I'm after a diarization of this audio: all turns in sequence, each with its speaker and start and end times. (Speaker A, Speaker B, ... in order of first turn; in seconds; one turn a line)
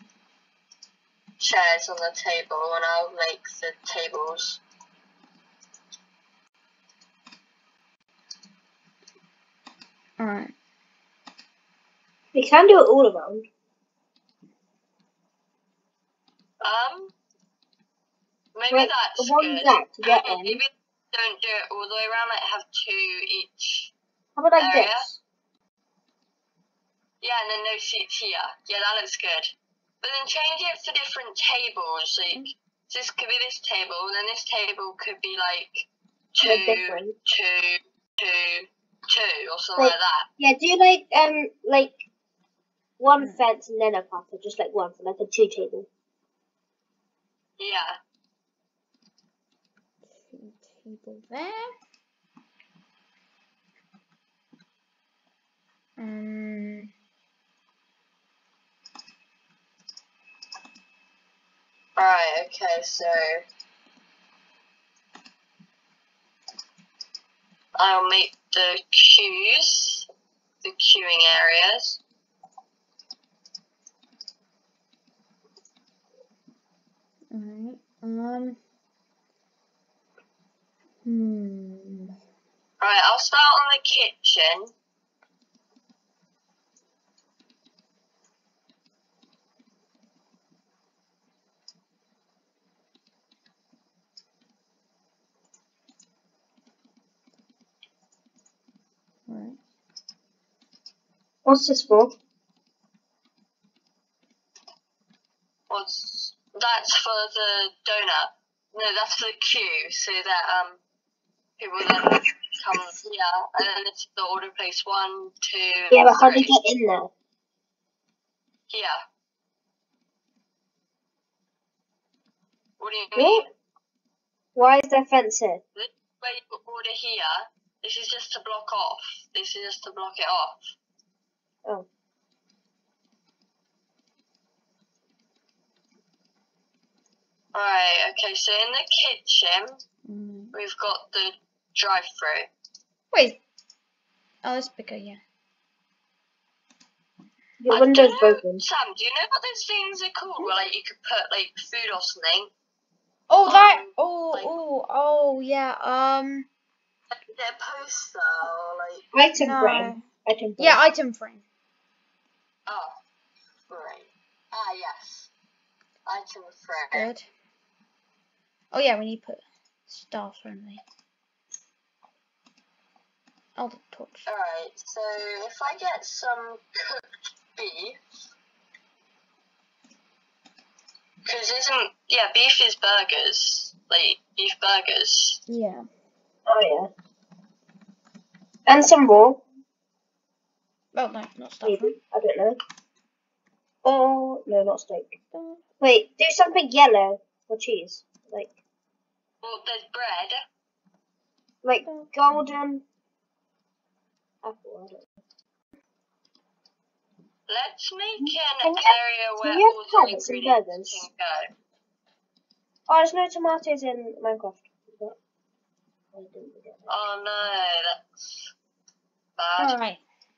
Speaker A: 1.4-4.6
Speaker B: 10.2-10.5
Speaker C: 12.3-13.5
Speaker A: 16.6-17.1
Speaker A: 18.6-23.9
Speaker C: 18.7-20.6
Speaker C: 24.4-25.2
Speaker A: 24.6-25.1
Speaker A: 27.2-40.3
Speaker C: 36.4-37.1
Speaker C: 39.8-42.0
Speaker C: 43.0-45.9
Speaker A: 47.6-48.0
Speaker B: 50.1-51.7
Speaker B: 56.0-56.9
Speaker A: 62.0-63.4
Speaker A: 67.8-70.1
Speaker A: 70.6-72.0
Speaker B: 77.3-78.6
Speaker B: 81.0-82.2
Speaker A: 82.8-84.7
Speaker B: 99.3-99.6
Speaker C: 101.5-102.1
Speaker A: 105.7-110.8
Speaker A: 111.6-116.6
Speaker C: 115.9-117.1
Speaker A: 118.7-119.0
Speaker A: 122.8-123.5
Speaker C: 123.2-123.5
Speaker C: 124.5-125.6
Speaker A: 125.8-130.7
Speaker A: 137.5-139.8
Speaker B: 140.1-140.5
Speaker A: 140.5-142.5
Speaker B: 143.1-143.4
Speaker B: 144.4-145.2
Speaker C: 147.6-148.7
Speaker A: 147.7-152.5
Speaker B: 153.3-156.5
Speaker A: 153.4-154.6
Speaker A: 157.1-159.1
Speaker C: 159.1-160.8
Speaker B: 159.4-160.1
Speaker B: 160.6-161.4
Speaker A: 162.7-162.9
Speaker A: 163.7-165.3
Speaker A: 166.1-167.1
Speaker B: 166.9-167.3
Speaker B: 168.7-170.8
Speaker B: 173.6-174.3
Speaker A: 174.3-178.0
Speaker A: 181.3-185.4
Speaker B: 185.5-185.9
Speaker C: 186.5-186.9
Speaker C: 188.7-189.4
Speaker B: 190.9-192.0
Speaker C: 191.6-192.6
Speaker C: 193.8-195.2
Speaker B: 195.3-195.6
Speaker C: 195.8-198.5
Speaker A: 199.4-200.4
Speaker C: 201.6-202.8
Speaker B: 201.8-202.6
Speaker C: 204.4-205.1
Speaker A: 207.5-211.5
Speaker C: 208.2-211.1
Speaker C: 212.9-215.2
Speaker C: 216.1-216.9
Speaker A: 216.9-218.5
Speaker A: 219.4-219.8
Speaker B: 219.6-220.0